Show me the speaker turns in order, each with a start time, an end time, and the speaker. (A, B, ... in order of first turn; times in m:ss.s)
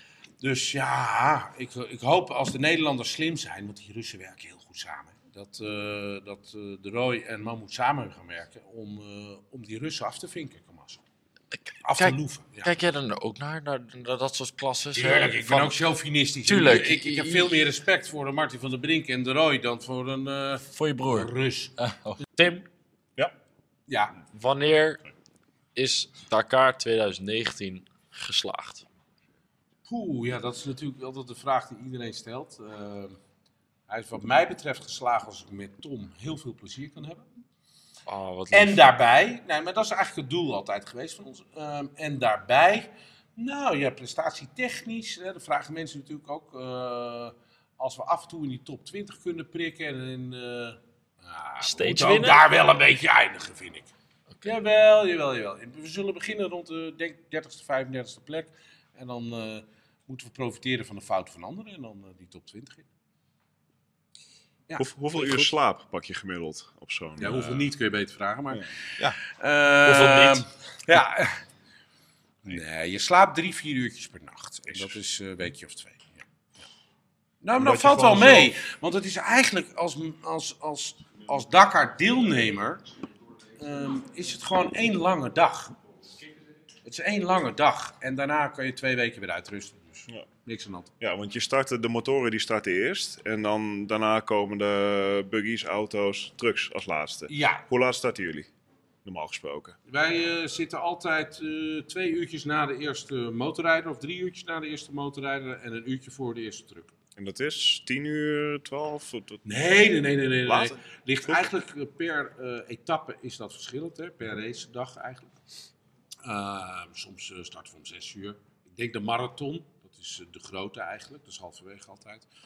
0:00.4-0:11.0 A
0:11.8-0:12.7 A
0:11.9-0:15.8 B
0:14.9-0:21.7 A
0:16.4-0:17.6 B
0:20.7-0:22.6 B
0:23.9-0:24.1 A
0:24.3-0:25.0 B
0:25.7-0:28.8 B
0:29.8-0:33.2 A
0:33.9-0:37.3 A
0:38.1-0:38.8 B
0:38.5-0:53.9 A
0:51.6-0:52.5 B
0:54.4-1:02.9 A
1:04.7-1:05.5 A
1:04.8-1:07.7 C
1:07.2-1:08.6 A
1:09.4-1:11.4 A
1:09.8-1:10.4 B
1:12.4-1:16.2 A
1:17.4-1:22.8 A
1:17.6-1:18.4 C
1:23.6-1:25.7 A
1:26.8-1:30.9 A
1:31.0-1:38.5 C
1:37.3-1:37.6 A
1:39.0-1:39.8 C
1:39.9-1:46.9 A
1:47.2-1:49.4 C
1:49.4-1:55.3 A
1:50.4-1:51.5 C
1:56.2-2:02.3 A